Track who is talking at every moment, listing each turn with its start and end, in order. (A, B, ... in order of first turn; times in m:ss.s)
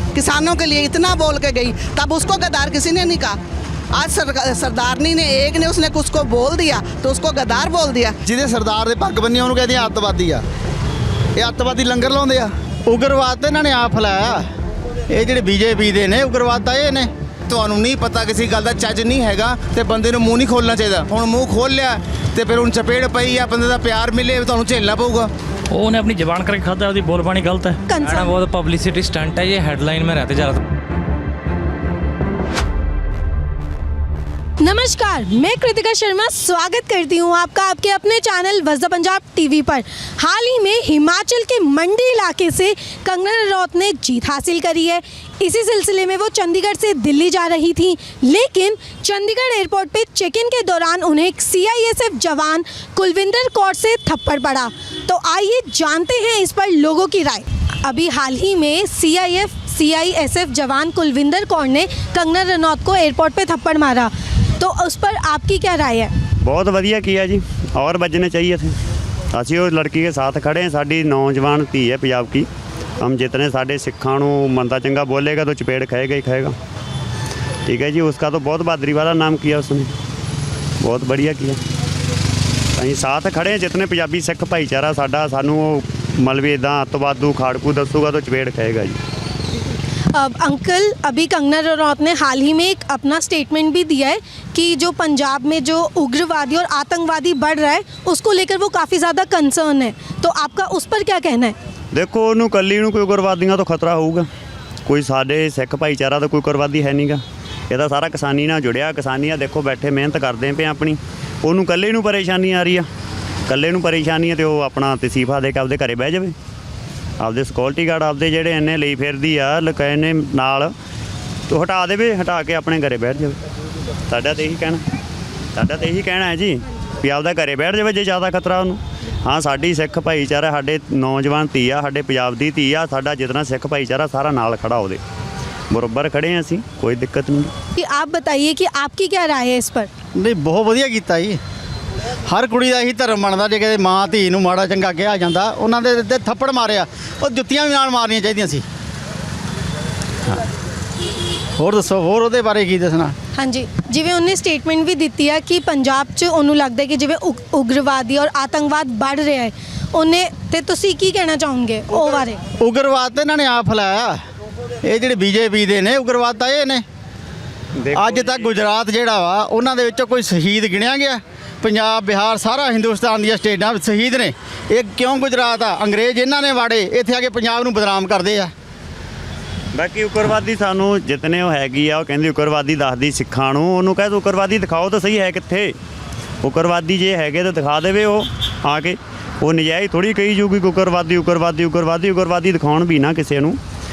0:00.2-0:03.4 A
0:03.9-0:08.2 A
0:08.2-0:10.4 B
0:11.4-0:14.4 B
0:15.1-0:17.1 B
0:17.6-0:21.7 C
0:22.4-0:25.1 C
0:25.7-0:27.8 D
0:27.9-0:28.4 E
0:28.1-0:30.6 F
0:34.6-1:06.1 E
1:06.4-1:08.7 G
1:09.4-1:12.5 G
1:13.0-1:16.5 G
1:17.7-1:19.9 G
1:20.8-1:21.6 G
1:22.8-1:28.9 G
1:30.1-1:41.6 E
1:41.9-1:44.2 G
1:44.9-1:47.2 G
1:47.7-1:52.8 G
1:53.5-1:56.3 G
1:57.2-2:00.7 G
2:01.5-2:03.3 G
2:04.1-2:04.8 G
2:05.6-2:15.0 G
2:15.7-2:17.5 G
2:17.8-2:19.9 E
2:20.2-2:21.4 B
2:22.3-2:28.6 B
2:31.6-2:33.1 B
2:33.4-2:42.4 E
2:42.6-2:44.2 B
2:44.8-2:46.8 B
2:47.9-2:58.5 B
2:59.8-3:05.7 G
3:06.4-3:13.6 G